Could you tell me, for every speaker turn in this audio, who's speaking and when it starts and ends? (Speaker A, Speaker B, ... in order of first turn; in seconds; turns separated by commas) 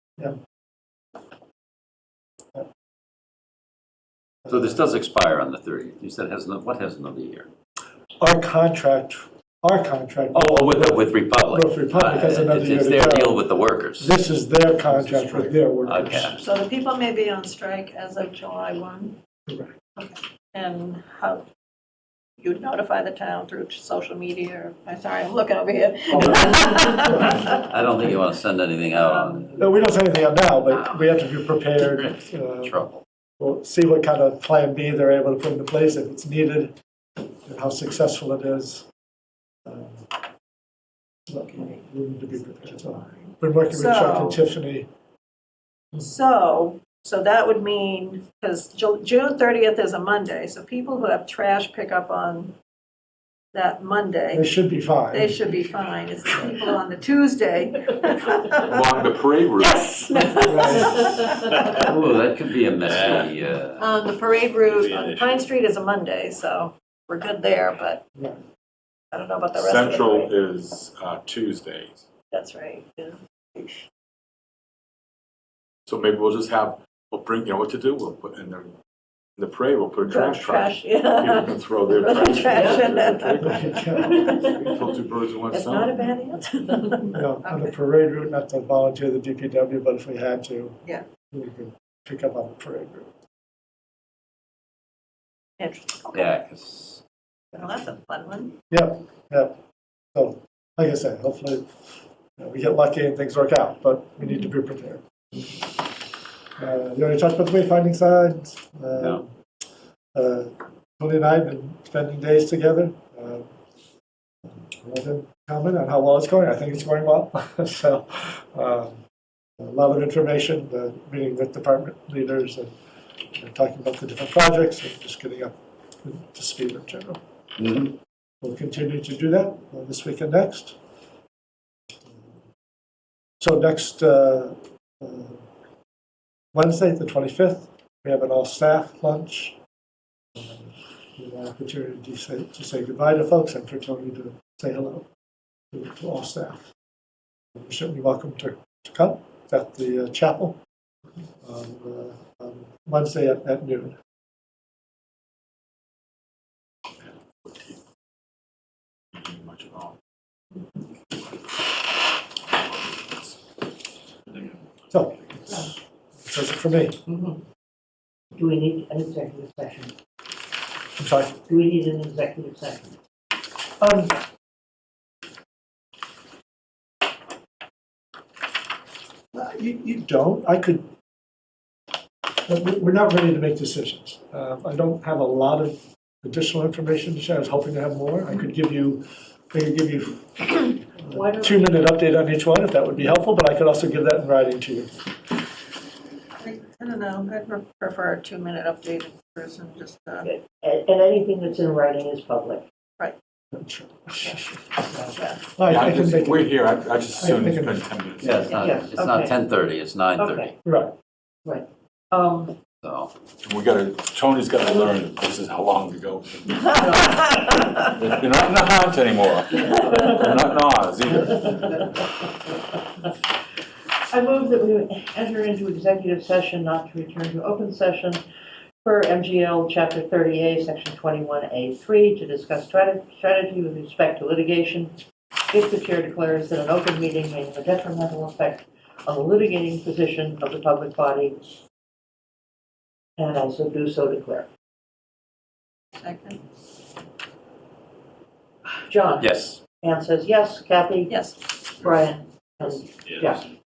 Speaker A: 4.5-7.5, Speaker B: 8.2-13.4, Speaker A: 10.3-14.2, Speaker B: 14.0-16.4, Speaker C: 14.9-15.5, Speaker A: 15.8-16.4, Speaker D: 16.4-19.2, Speaker B: 19.5-19.7, Speaker D: 19.9-21.4, Speaker D: 22.4-27.6, Speaker B: 26.1-27.5, Speaker A: 27.5-29.6, Speaker D: 29.0-29.5, Speaker B: 29.6-32.8, Speaker A: 30.7-31.1, Speaker A: 31.8-33.0, Speaker B: 33.4-36.7, Speaker B: 37.4-38.9, Speaker B: 39.6-40.1, Speaker B: 41.3-44.9, Speaker D: 42.9-44.4, Speaker D: 45.9-52.5, Speaker D: 53.5-54.5, Speaker B: 54.3-55.5, Speaker D: 55.1-59.0, Speaker C: 58.6-59.9, Speaker D: 59.6-61.9, Speaker B: 60.4-61.1, Speaker A: 61.8-63.9, Speaker D: 63.8-68.0, Speaker C: 64.8-65.3, Speaker D: 69.1-70.3, Speaker C: 69.5-72.0, Speaker D: 72.3-73.8, Speaker C: 75.9-78.7, Speaker C: 79.4-86.0, Speaker D: 80.0-84.6, Speaker E: 82.5-82.8, Speaker B: 83.4-84.4, Speaker E: 84.3-84.8, Speaker E: 85.5-86.4, Speaker D: 86.0-87.7, Speaker B: 87.1-90.8, Speaker B: 91.3-93.1, Speaker D: 95.6-96.3, Speaker A: 96.1-97.0, Speaker D: 97.5-98.5, Speaker B: 98.7-99.6, Speaker B: 100.1-101.7, Speaker B: 102.4-105.0, Speaker B: 106.6-109.3, Speaker A: 109.0-109.2, Speaker B: 110.1-113.5, Speaker B: 114.5-119.0, Speaker B: 119.6-122.7, Speaker B: 123.3-127.2, Speaker A: 127.6-127.9, Speaker B: 128.4-130.8, Speaker B: 133.4-135.4, Speaker B: 136.5-139.6, Speaker B: 140.3-145.1, Speaker B: 145.7-146.7, Speaker B: 147.6-150.6, Speaker B: 151.4-153.9, Speaker C: 157.4-157.8, Speaker C: 159.1-159.9, Speaker C: 162.5-163.4, Speaker B: 164.9-167.0, Speaker E: 167.1-167.4, Speaker E: 168.3-169.9, Speaker B: 171.0-171.5, Speaker E: 171.5-172.9, Speaker B: 173.8-174.2, Speaker B: 179.3-180.9, Speaker B: 182.4-194.9, Speaker E: 191.1-191.8, Speaker D: 196.4-200.3, Speaker E: 200.2-202.6, Speaker B: 203.5-204.9, Speaker D: 205.1-205.4, Speaker B: 205.5-206.6, Speaker C: 205.6-208.7, Speaker B: 207.2-207.8, Speaker A: 208.2-210.5, Speaker E: 208.6-209.3, Speaker E: 210.2-210.5, Speaker B: 210.6-210.9, Speaker E: 211.4-212.6, Speaker A: 212.8-213.1, Speaker C: 213.4-221.8, Speaker E: 216.6-217.8, Speaker E: 224.1-228.2, Speaker E: 228.8-234.9, Speaker E: 235.5-241.5, Speaker E: 243.2-244.5, Speaker D: 246.0-246.4, Speaker E: 248.8-253.5, Speaker A: 249.2-249.6, Speaker D: 251.1-251.5